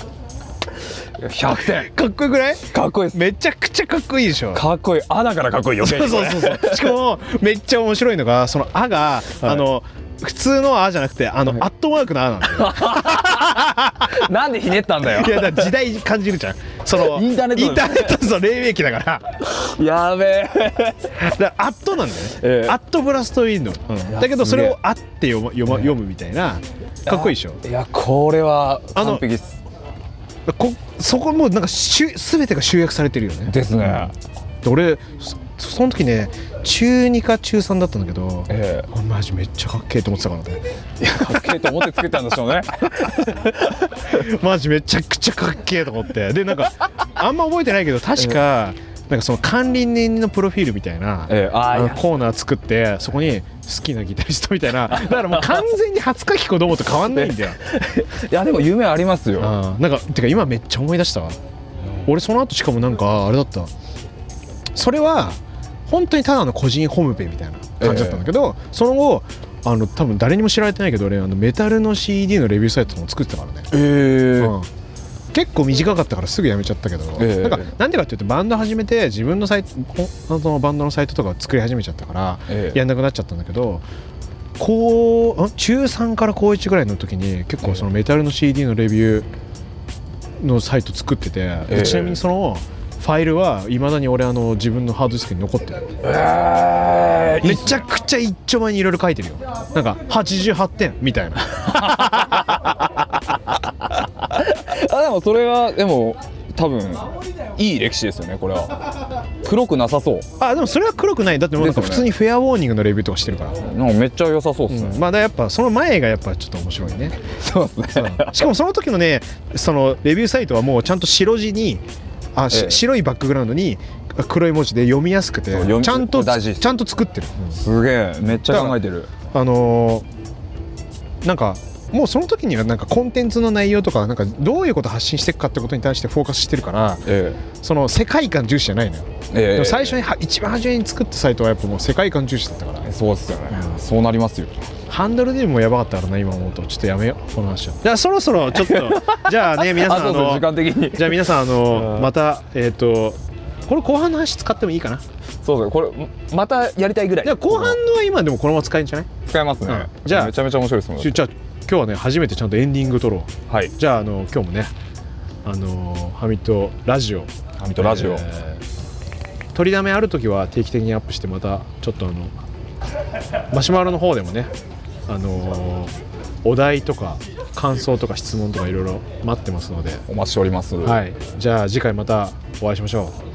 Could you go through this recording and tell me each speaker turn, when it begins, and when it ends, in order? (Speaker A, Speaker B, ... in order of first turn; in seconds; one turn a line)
Speaker A: 1.2-1.9
Speaker B: 1.4-4.6
Speaker A: 2.7-3.2
Speaker A: 4.5-7.0
Speaker B: 5.8-14.1
Speaker A: 12.5-15.7
Speaker B: 15.0-19.2
Speaker A: 16.9-18.3
Speaker A: 19.4-21.1
Speaker B: 21.2-27.6
Speaker A: 22.4-22.8
Speaker A: 24.1-24.8
Speaker A: 25.7-25.9
Speaker A: 27.1-29.6
Speaker B: 28.9-29.2
Speaker B: 30.5-34.1
Speaker A: 33.5-34.1
Speaker B: 34.6-40.6
Speaker A: 38.5-38.9
Speaker A: 41.0-44.1
Speaker B: 44.0-57.6
Speaker A: 51.3-52.1
Speaker A: 56.9-59.5
Speaker B: 59.4-61.4
Speaker B: 62.0-63.7
Speaker B: 64.7-73.7
Speaker A: 67.8-68.3
Speaker A: 73.7-74.5
Speaker B: 74.4-74.7
Speaker B: 75.3-83.8
Speaker A: 77.2-77.7
Speaker A: 82.5-82.8
Speaker B: 84.6-89.3
Speaker B: 90.4-95.8
Speaker A: 91.7-92.2
Speaker A: 96.0-97.9
Speaker B: 97.4-102.5
Speaker A: 101.5-108.8
Speaker A: 109.4-110.2
Speaker B: 110.4-113.6
Speaker A: 111.6-112.1
Speaker A: 113.6-115.0
Speaker B: 114.7-117.2
Speaker A: 117.3-118.5
Speaker B: 117.9-121.8
Speaker B: 122.3-127.6
Speaker A: 122.5-122.8
Speaker A: 125.5-126.8
Speaker A: 127.5-129.1
Speaker B: 128.5-128.8
Speaker B: 129.3-130.1
Speaker B: 131.2-137.1
Speaker A: 137.1-137.4
Speaker B: 137.6-142.9
Speaker A: 139.3-140.0
Speaker A: 142.8-144.6
Speaker B: 144.9-155.0
Speaker A: 148.6-152.1
Speaker A: 155.4-157.8
Speaker B: 157.2-159.1
Speaker A: 159.2-161.2
Speaker B: 159.7-160.3
Speaker B: 161.0-164.7
Speaker A: 163.5-163.7
Speaker B: 165.4-168.6
Speaker A: 167.6-168.2
Speaker B: 169.5-172.3
Speaker B: 173.5-174.5
Speaker B: 175.1-175.9
Speaker B: 176.4-180.0
Speaker A: 180.1-181.0
Speaker B: 180.8-183.1